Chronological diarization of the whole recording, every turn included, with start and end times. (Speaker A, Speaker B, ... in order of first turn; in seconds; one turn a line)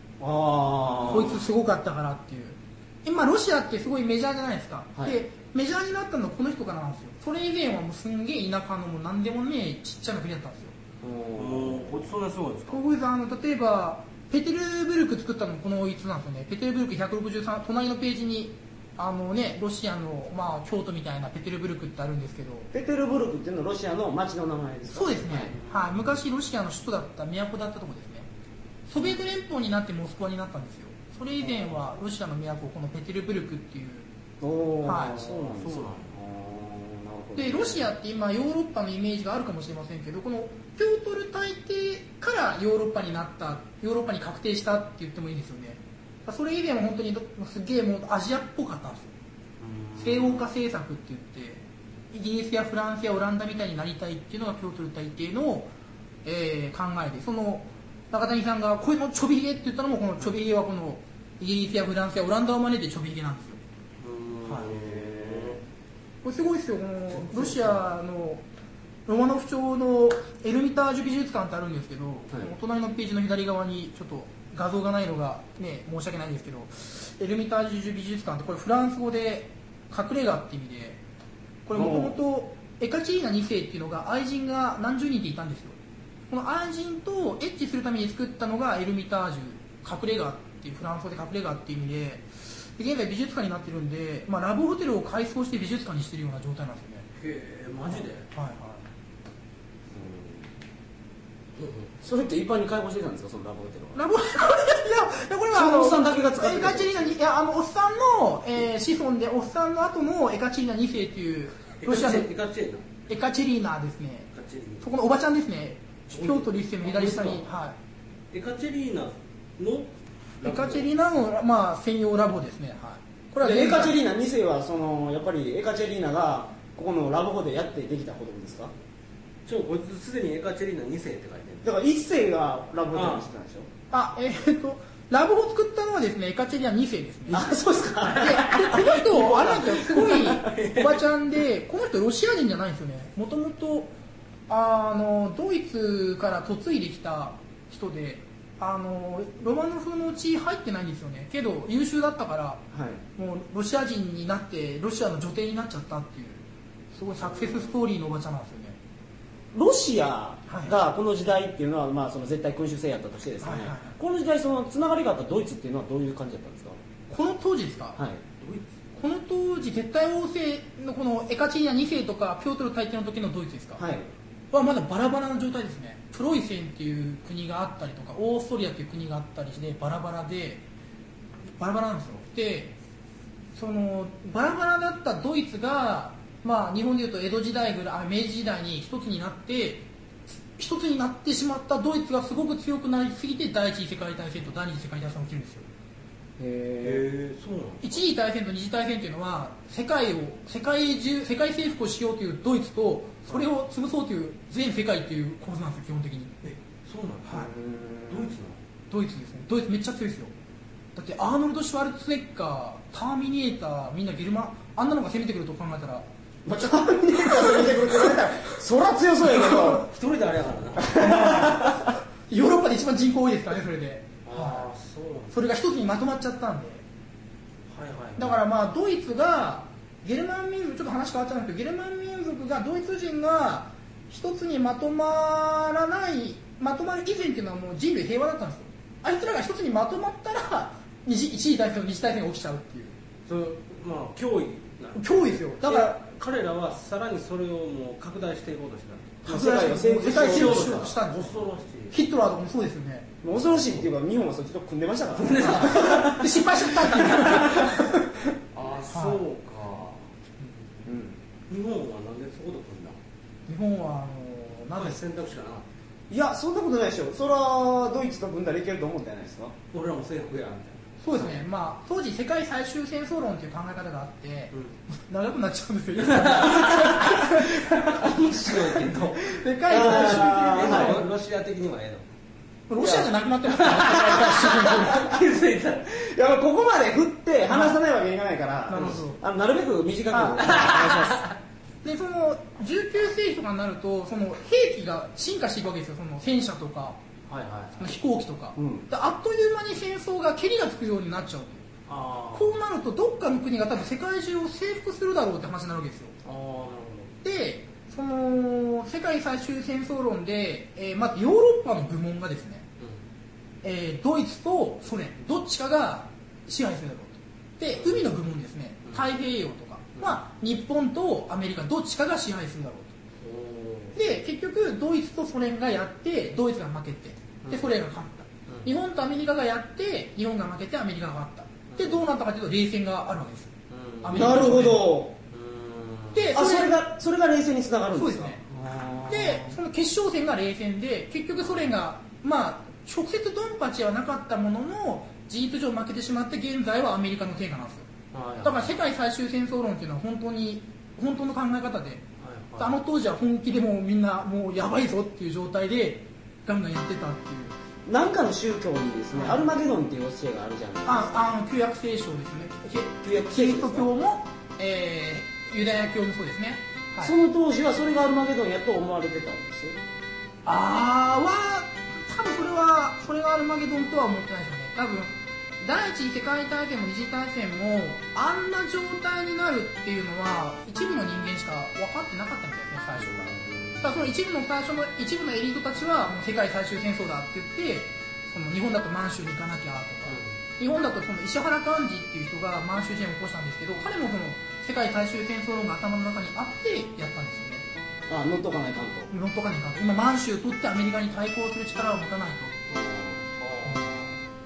Speaker A: 0.2-1.4
Speaker B: 1.0-10.7
Speaker A: 11.0-12.1
Speaker C: 11.3-12.8
Speaker B: 12.7-22.7
Speaker A: 22.7-25.5
Speaker B: 24.9-28.3
Speaker C: 25.4-26.1
Speaker B: 28.9-34.1
Speaker A: 34.4-37.9
Speaker B: 34.8-35.3
Speaker C: 35.1-36.1
Speaker B: 37.4-49.1
Speaker C: 49.6-50.5
Speaker B: 50.0-55.7
Speaker B: 56.2-63.6
Speaker C: 64.0-65.6
Speaker B: 64.4-64.7
Speaker A: 64.7-65.6
Speaker B: 66.2-68.4
Speaker C: 67.1-67.8
Speaker B: 69.1-81.0
Speaker B: 81.7-85.8
Speaker A: 81.7-82.2
Speaker B: 86.3-97.0
Speaker C: 97.2-98.2
Speaker B: 98.0-98.8
Speaker A: 99.9-100.4
Speaker C: 101.5-101.9
Speaker A: 102.0-104.0
Speaker B: 103.9-112.3
Speaker A: 105.5-107.2
Speaker C: 111.8-112.8
Speaker B: 113.1-117.8
Speaker C: 114.3-114.8
Speaker C: 116.1-117.5
Speaker C: 118.3-119.9
Speaker C: 120.4-120.9
Speaker B: 120.4-124.0
Speaker A: 123.4-128.7
Speaker C: 129.4-131.7
Speaker A: 131.6-133.7
Speaker C: 132.9-133.2
Speaker B: 133.9-137.6
Speaker A: 137.3-139.6
Speaker C: 138.0-141.0
Speaker B: 138.1-143.9
Speaker B: 144.5-152.6
Speaker A: 152.7-153.0
Speaker B: 153.2-158.8
Speaker A: 159.5-166.8
Speaker B: 160.5-160.8
Speaker B: 163.4-163.9
Speaker B: 167.1-168.0
Speaker A: 168.0-168.2
Speaker B: 169.0-173.8
Speaker A: 173.8-174.1
Speaker B: 174.5-180.6
Speaker B: 181.6-182.7
Speaker B: 183.5-189.8
Speaker B: 190.5-195.7
Speaker A: 196.4-197.1
Speaker C: 196.8-198.0
Speaker B: 197.8-206.5
Speaker C: 206.7-207.5
Speaker A: 207.3-208.4
Speaker C: 208.1-208.6
Speaker B: 208.9-210.3
Speaker B: 210.9-216.1
Speaker A: 216.4-219.9
Speaker B: 217.1-218.1
Speaker C: 219.4-221.1
Speaker A: 220.8-221.9
Speaker B: 220.9-224.7
Speaker C: 224.2-225.4
Speaker B: 225.3-226.8
Speaker C: 227.7-228.4
Speaker B: 228.2-242.9
Speaker C: 243.3-249.2
Speaker B: 245.0-246.0
Speaker A: 249.2-250.9
Speaker B: 249.2-251.3
Speaker C: 250.0-252.0
Speaker B: 251.9-253.1
Speaker A: 253.2-256.4
Speaker C: 253.5-253.8
Speaker C: 255.1-256.2
Speaker B: 255.5-258.3
Speaker C: 257.0-257.4
Speaker A: 257.0-257.7
Speaker C: 258.5-260.0
Speaker B: 258.9-259.2
Speaker A: 260.9-261.2
Speaker C: 261.5-263.0
Speaker B: 263.5-265.0
Speaker C: 264.8-265.6
Speaker A: 266.1-269.6
Speaker C: 269.7-270.9
Speaker B: 271.0-277.8
Speaker C: 276.0-282.0
Speaker B: 279.2-281.1
Speaker A: 279.7-281.0
Speaker B: 282.7-285.2
Speaker A: 282.8-283.1
Speaker C: 283.5-285.9
Speaker A: 285.9-291.2
Speaker B: 287.5-287.8
Speaker B: 288.7-289.2
Speaker C: 288.7-289.0
Speaker B: 290.1-290.6
Speaker C: 290.4-291.4
Speaker B: 291.8-297.0
Speaker C: 297.3-297.9
Speaker B: 297.8-301.6
Speaker A: 298.6-298.9
Speaker C: 301.9-302.6
Speaker B: 302.3-306.1
Speaker C: 306.2-307.1
Speaker B: 307.2-312.6
Speaker B: 313.6-322.9
Speaker C: 317.8-318.1
Speaker C: 323.2-324.0
Speaker B: 323.9-334.9
Speaker C: 327.4-327.7
Speaker C: 331.7-332.0
Speaker C: 333.7-334.6
Speaker A: 334.1-335.1
Speaker C: 335.3-336.3
Speaker B: 336.1-336.8
Speaker A: 336.3-339.6
Speaker B: 337.9-338.4
Speaker B: 339.1-347.9
Speaker C: 348.1-348.7
Speaker B: 348.4-352.0
Speaker C: 352.2-352.7
Speaker B: 352.6-357.6
Speaker A: 357.9-361.1
Speaker B: 359.1-359.4
Speaker B: 360.8-367.1
Speaker A: 363.0-363.9
Speaker A: 367.0-369.8
Speaker B: 370.4-397.6
Speaker C: 383.0-384.0
Speaker C: 390.1-390.3
Speaker A: 398.1-399.1
Speaker B: 399.1-402.7
Speaker A: 402.7-403.2
Speaker C: 403.2-403.9
Speaker B: 403.6-404.1